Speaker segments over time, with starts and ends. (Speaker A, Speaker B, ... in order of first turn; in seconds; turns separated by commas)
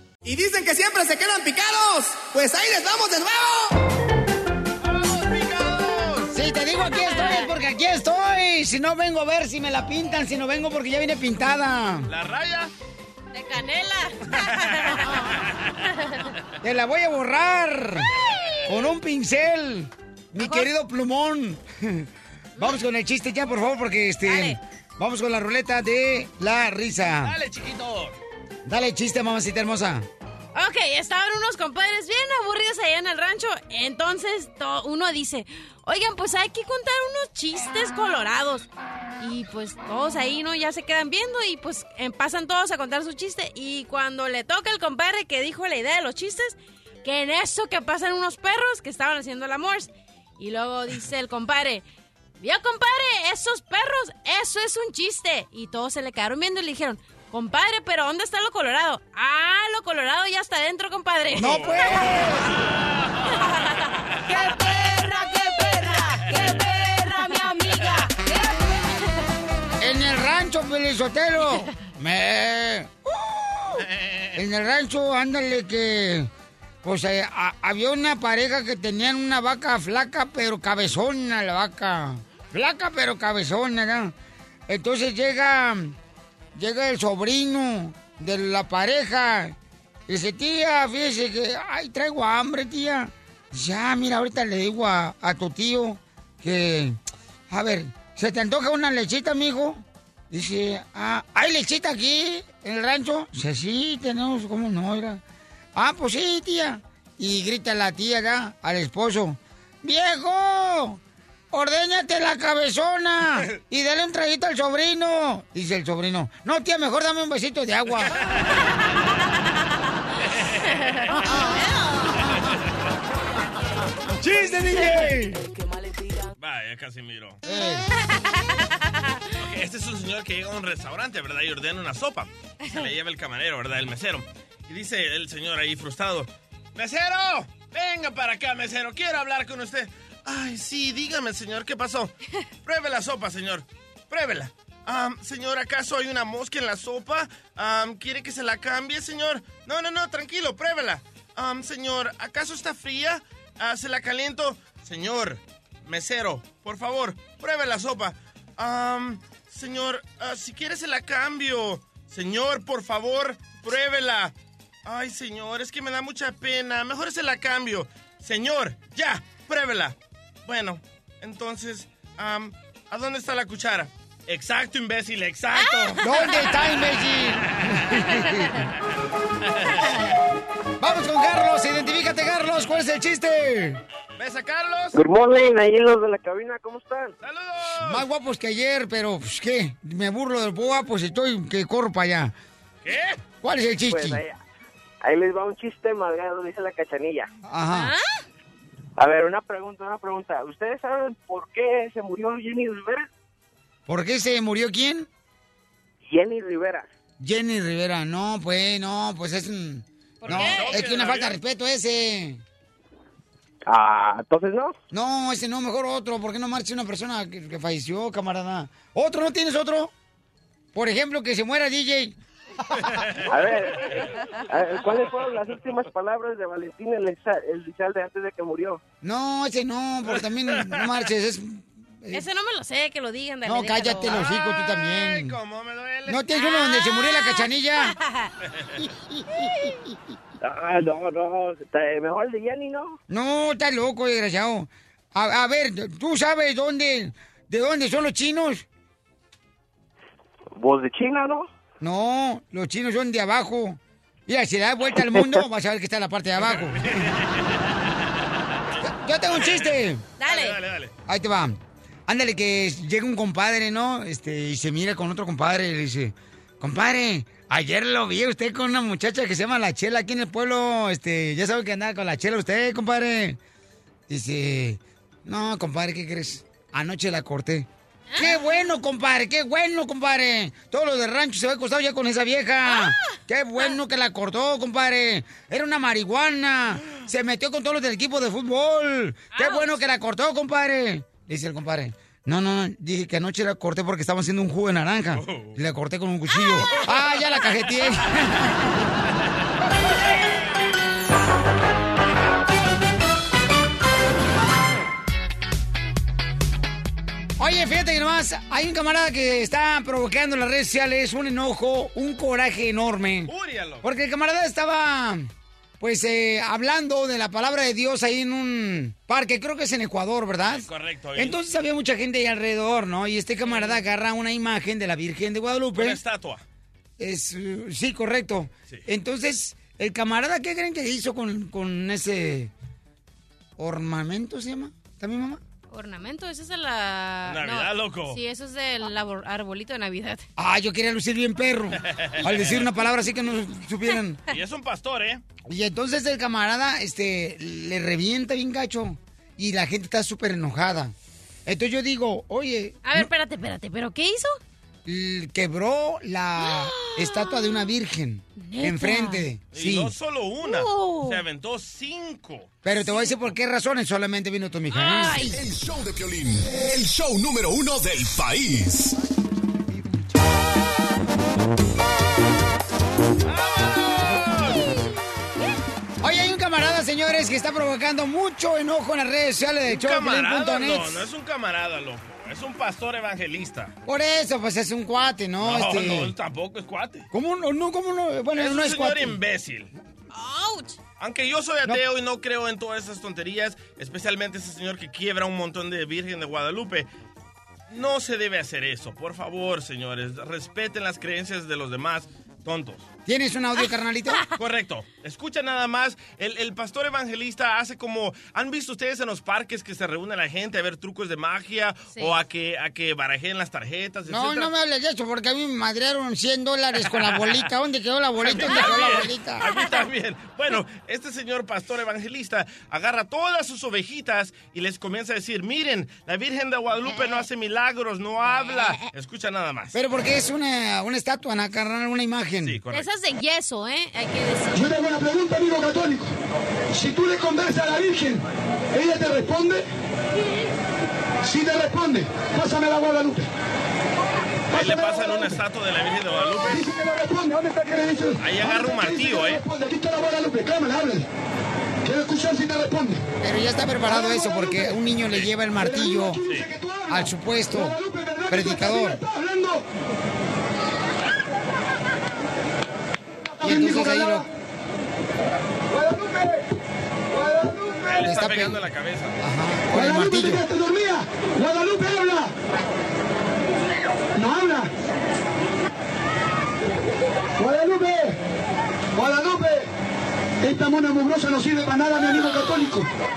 Speaker A: 0.3-3.5, Speaker B: 4.8-6.3, Speaker C: 6.3-12.1, Speaker D: 7.1-7.5, Speaker B: 12.1-12.7, Speaker D: 13.3-15.3, Speaker B: 14.3-15.2, Speaker D: 15.9-16.3, Speaker C: 16.6-18.1, Speaker C: 18.7-22.1, Speaker D: 20.4-20.7, Speaker C: 22.6-27.3, Speaker D: 24.2-24.6, Speaker B: 27.2-28.2, Speaker C: 28.7-30.1, Speaker D: 30.5-38.7, Speaker D: 39.2-51.8, Speaker D: 52.4-62.0, Speaker B: 61.3-62.4, Speaker C: 61.3-62.5, Speaker D: 64.3-69.0, Speaker B: 66.3-66.7, Speaker C: 69.8-73.8, Speaker B: 73.8-74.4, Speaker C: 74.3-76.3, Speaker C: 76.8-84.1, Speaker C: 84.7-85.9, Speaker C: 86.5-89.5, Speaker C: 90.1-97.0, Speaker C: 97.5-105.2, Speaker C: 105.8-111.0, Speaker C: 111.5-118.1, Speaker B: 118.0-118.7, Speaker B: 120.3-121.2, Speaker D: 121.3-122.1, Speaker C: 124.2-125.4, Speaker B: 126.4-127.4, Speaker C: 127.5-127.8, Speaker B: 129.4-142.1, Speaker B: 142.6-164.3, Speaker B: 164.8-176.4, Speaker D: 175.6-176.5, Speaker C: 176.0-178.2, Speaker B: 177.5-178.2, Speaker C: 180.8-183.8, Speaker B: 184.2-185.0, Speaker E: 184.9-187.1, Speaker B: 187.2-188.1, Speaker C: 187.8-192.3, Speaker B: 192.8-193.2, Speaker C: 193.4-194.2, Speaker E: 193.8-194.3, Speaker E: 195.0-197.3, Speaker C: 197.5-197.9, Speaker D: 197.7-198.1, Speaker E: 199.0-203.1, Speaker C: 203.9-205.1, Speaker E: 206.1-206.9, Speaker C: 207.2-212.4, Speaker B: 210.2-211.4, Speaker D: 210.3-210.6, Speaker E: 213.7-214.8, Speaker C: 214.9-219.9, Speaker C: 220.7-222.1, Speaker B: 222.8-223.3, Speaker E: 223.2-228.8, Speaker C: 229.0-232.2, Speaker B: 230.5-230.8, Speaker D: 232.1-234.3, Speaker C: 233.4-235.3, Speaker B: 234.1-236.3, Speaker C: 236.1-237.9, Speaker D: 236.3-238.3, Speaker E: 240.4-243.0, Speaker C: 243.1-248.7, Speaker E: 250.5-251.5, Speaker C: 251.8-257.0, Speaker B: 256.4-258.1, Speaker B: 258.7-260.9, Speaker C: 258.8-260.0, Speaker D: 260.2-260.6, Speaker C: 261.1-273.4, Speaker C: 274.1-298.4, Speaker D: 278.1-278.4, Speaker D: 282.6-283.7, Speaker D: 289.4-289.6, Speaker B: 295.1-295.6, Speaker C: 307.4-313.3, Speaker B: 313.2-313.8, Speaker C: 313.8-315.3, Speaker C: 315.8-326.0, Speaker B: 320.5-321.4, Speaker B: 325.8-326.4, Speaker C: 327.0-332.5, Speaker C: 333.6-335.4, Speaker D: 335.7-340.2, Speaker B: 337.2-338.2, Speaker C: 340.4-344.2, Speaker B: 341.8-342.6, Speaker B: 344.3-345.2, Speaker C: 345.4-350.9, Speaker C: 351.4-353.1, Speaker D: 352.8-354.4, Speaker C: 354.9-359.9, Speaker D: 356.4-357.7, Speaker D: 358.4-359.3, Speaker B: 359.5-362.5, Speaker D: 360.4-361.2, Speaker C: 362.6-365.3, Speaker D: 364.7-365.4, Speaker F: 365.2-368.9, Speaker B: 373.2-374.8, Speaker C: 376.0-381.0, Speaker B: 379.7-383.7, Speaker C: 383.9-386.1, Speaker B: 385.4-387.1, Speaker C: 387.1-389.2, Speaker B: 388.3-389.7, Speaker D: 390.1-390.8, Speaker B: 391.0-396.9, Speaker B: 397.7-402.9, Speaker C: 403.1-404.2, Speaker B: 404.4-414.5, Speaker C: 414.1-419.4, Speaker B: 417.0-417.4, Speaker B: 418.2-429.7, Speaker D: 419.4-419.7, Speaker D: 426.8-427.2, Speaker D: 428.2-428.9, Speaker C: 429.7-432.6, Speaker B: 432.4-432.9, Speaker D: 432.7-434.7, Speaker G: 434.5-436.1, Speaker G: 436.7-439.6, Speaker G: 441.2-443.3, Speaker G: 444.5-445.3, Speaker B: 444.5-446.6, Speaker G: 446.4-451.1, Speaker B: 448.2-449.4, Speaker G: 451.8-453.0, Speaker C: 453.2-456.2, Speaker G: 453.8-454.8, Speaker G: 455.6-459.6, Speaker C: 456.9-457.8, Speaker C: 458.3-459.0, Speaker G: 463.3-464.3, Speaker C: 463.4-464.2, Speaker G: 465.7-466.4, Speaker G: 467.1-468.0, Speaker B: 467.9-469.2, Speaker C: 468.0-468.6, Speaker C: 469.2-470.4, Speaker G: 469.7-472.3, Speaker G: 474.1-474.7, Speaker G: 477.4-478.2, Speaker G: 478.9-479.7, Speaker G: 480.4-482.9